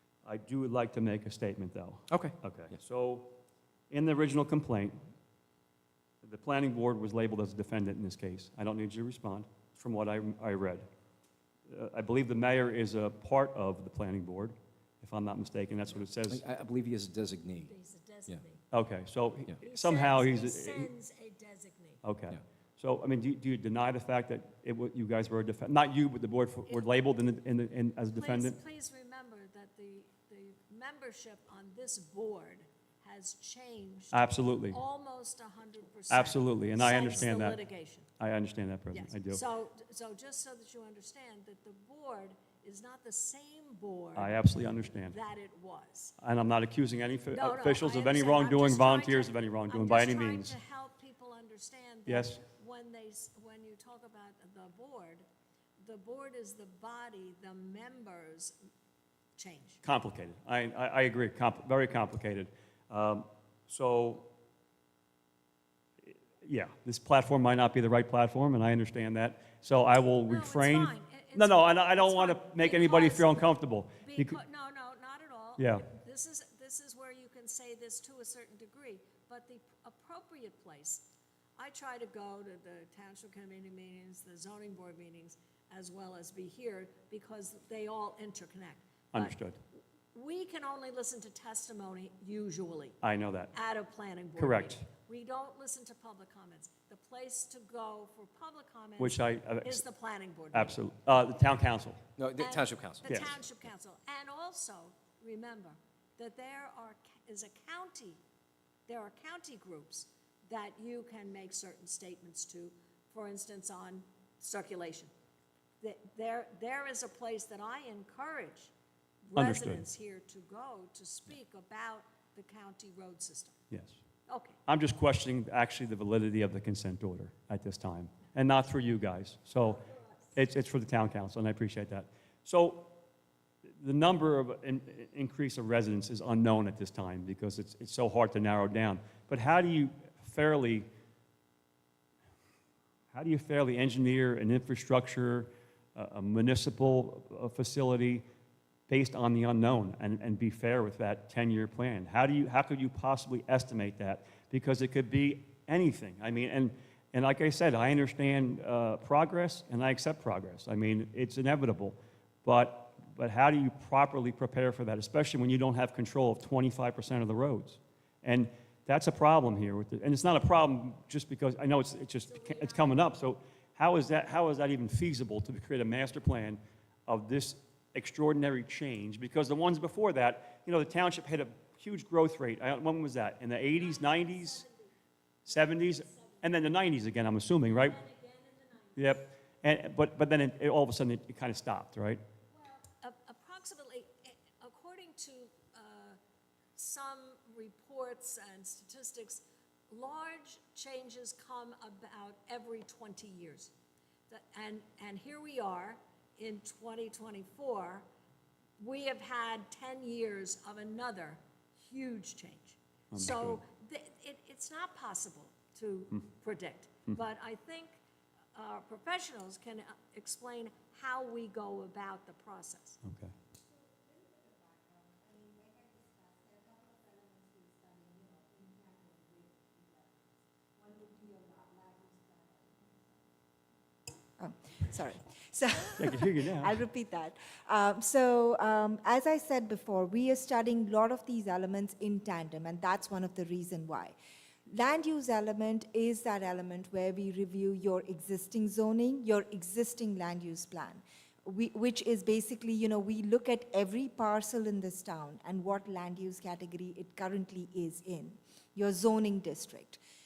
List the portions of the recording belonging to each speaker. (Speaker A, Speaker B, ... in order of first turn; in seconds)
Speaker A: 0.2-3.3, 3.9-5.0, 6.2-10.8, 11.7-16.4, 18.7-20.9, 22.0-28.6, 34.1-34.8, 36.1-37.6, 38.2-39.4, 44.2-45.2, 46.2-50.6, 52.1-52.4, 59.8-64.3, 66.4-74.4, 75.6-75.8, 89.1-89.6, 93.0-93.5, 94.4-94.8, 99.0-99.8, 100.5-102.0, 103.0-103.3, 119.3-119.8, 123.7-124.0, 124.7-129.8, 130.3-132.9, 133.8-140.9, 143.1-148.2, 148.9-184.7, 185.5-188.0, 189.0-192.2, 213.1-213.6, 223.0-223.3, 235.9-236.8
Speaker B: 2.1-2.8, 16.2-17.7, 102.2-103.7
Speaker C: 17.7-18.7, 19.6-22.0, 28.1-38.1, 38.9-46.1, 47.3-55.2, 55.8-58.5, 59.4-59.8, 70.3-73.5, 74.0-89.4, 90.1-93.0, 93.5-100.8, 102.4-108.2, 108.9-115.1, 115.8-118.7, 119.3-123.6, 124.3-124.6, 129.6-130.3, 172.2-173.1, 183.7-184.9, 185.5-186.7, 187.7-189.3, 192.5-196.2, 196.8-203.7, 204.3-208.1, 208.8-218.0, 218.6-223.0
Speaker D: 224.4-229.4, 230.9-232.7, 234.4-244.2, 244.7-260.0